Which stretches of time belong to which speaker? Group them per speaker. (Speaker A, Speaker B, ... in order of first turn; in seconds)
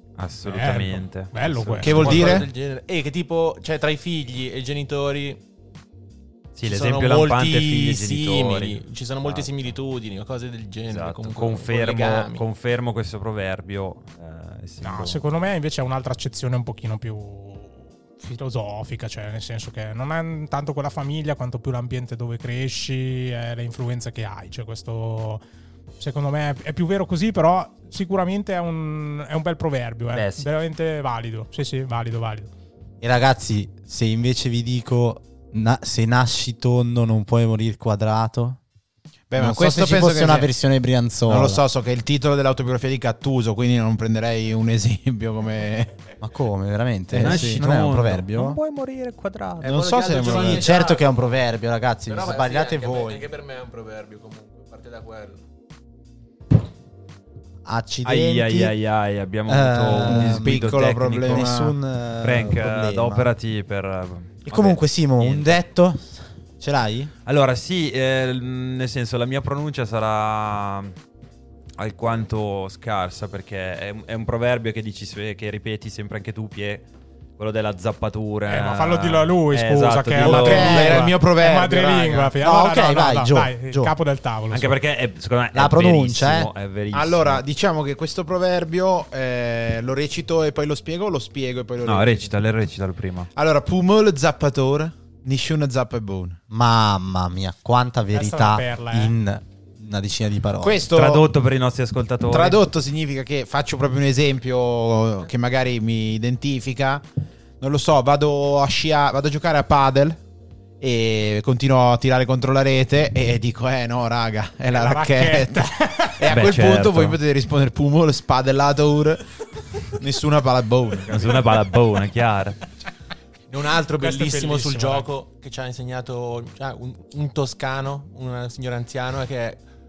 Speaker A: 0.2-2.4, 6.6-9.7, 10.9-15.2, 30.1-30.5, 47.2-49.7, 58.0-61.5, 62.2-65.6, 67.3-71.0, 71.8-76.9, 77.4-81.0, 84.5-87.4, 91.8-93.3, 100.9-102.6, 116.3-117.2, 121.1-122.6
Speaker B: 0.5-2.2, 14.8-25.4, 26.0-32.5, 78.5-84.8, 98.1-99.1, 114.7-116.3, 124.0-125.1
Speaker C: 1.8-2.5, 39.3-40.5, 41.3-46.0, 47.1-47.6, 49.6-50.8, 60.0-61.8, 80.2-82.3, 86.9-92.3, 93.3-96.4, 100.6-101.3, 102.3-107.0, 107.6-110.2, 110.8-119.3, 119.8-121.5
Speaker D: 1.9-5.4, 6.6-12.4, 49.6-51.2, 52.1-55.4, 123.5-129.6
Speaker E: 33.0-38.6, 39.4-41.6, 46.2-48.6, 50.2-53.3, 57.6-58.8, 59.5-60.7, 61.3-63.3, 64.5-67.1, 80.7-81.0, 82.4-83.9, 85.5-86.5, 96.5-100.8